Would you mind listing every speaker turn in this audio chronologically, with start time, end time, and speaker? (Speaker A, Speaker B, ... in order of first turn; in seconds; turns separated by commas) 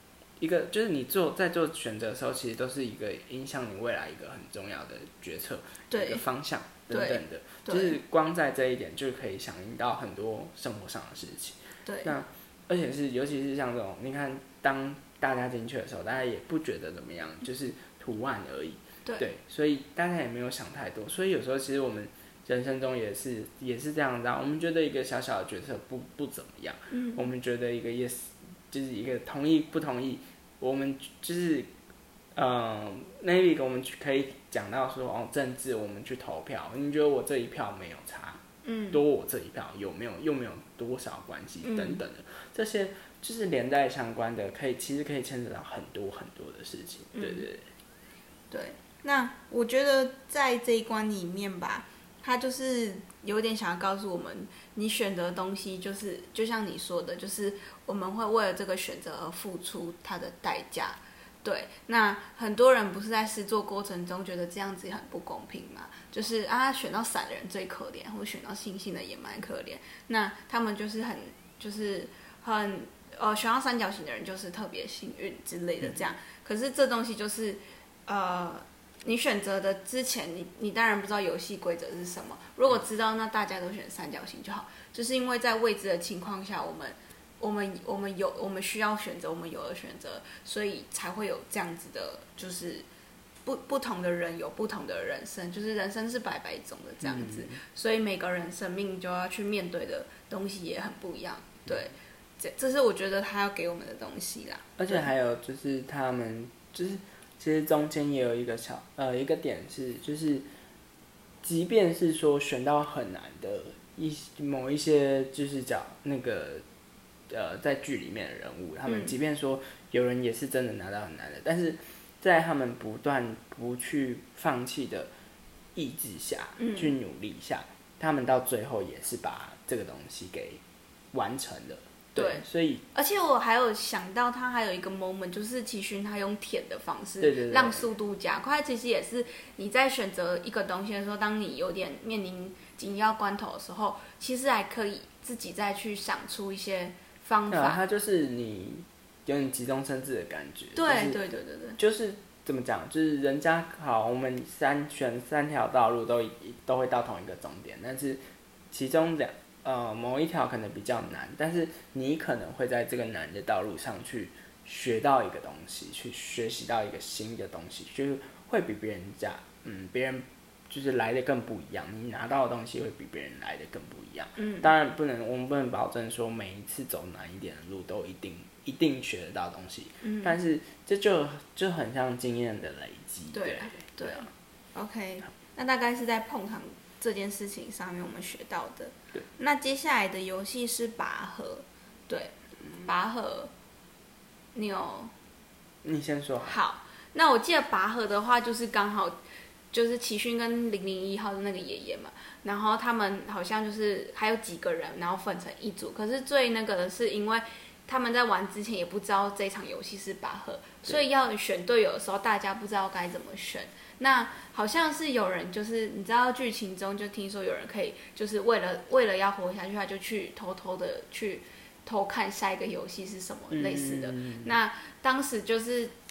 Speaker A: 0.4-31.7, Speaker B: 5.9-6.2, Speaker B: 6.9-8.0, Speaker B: 11.9-12.2, Speaker B: 26.9-27.3, Speaker A: 32.4-47.7, Speaker B: 38.6-39.0, Speaker B: 41.6-42.0, Speaker B: 47.1-47.5, Speaker B: 48.5-92.9, Speaker B: 93.5-105.1, Speaker A: 97.0-97.6, Speaker A: 104.8-110.5, Speaker A: 111.4-116.6, Speaker A: 117.3-125.1, Speaker B: 118.9-119.1, Speaker A: 125.8-130.6, Speaker B: 126.6-127.0, Speaker A: 131.1-132.8, Speaker B: 132.2-147.8, Speaker A: 137.2-137.9, Speaker A: 147.5-151.2, Speaker B: 150.8-151.8, Speaker A: 151.8-184.3, Speaker B: 174.4-174.7, Speaker B: 180.0-180.4, Speaker B: 183.3-193.5, Speaker B: 194.5-195.1, Speaker A: 195.8-196.6, Speaker B: 196.4-199.2, Speaker B: 199.7-225.9, Speaker A: 223.5-224.6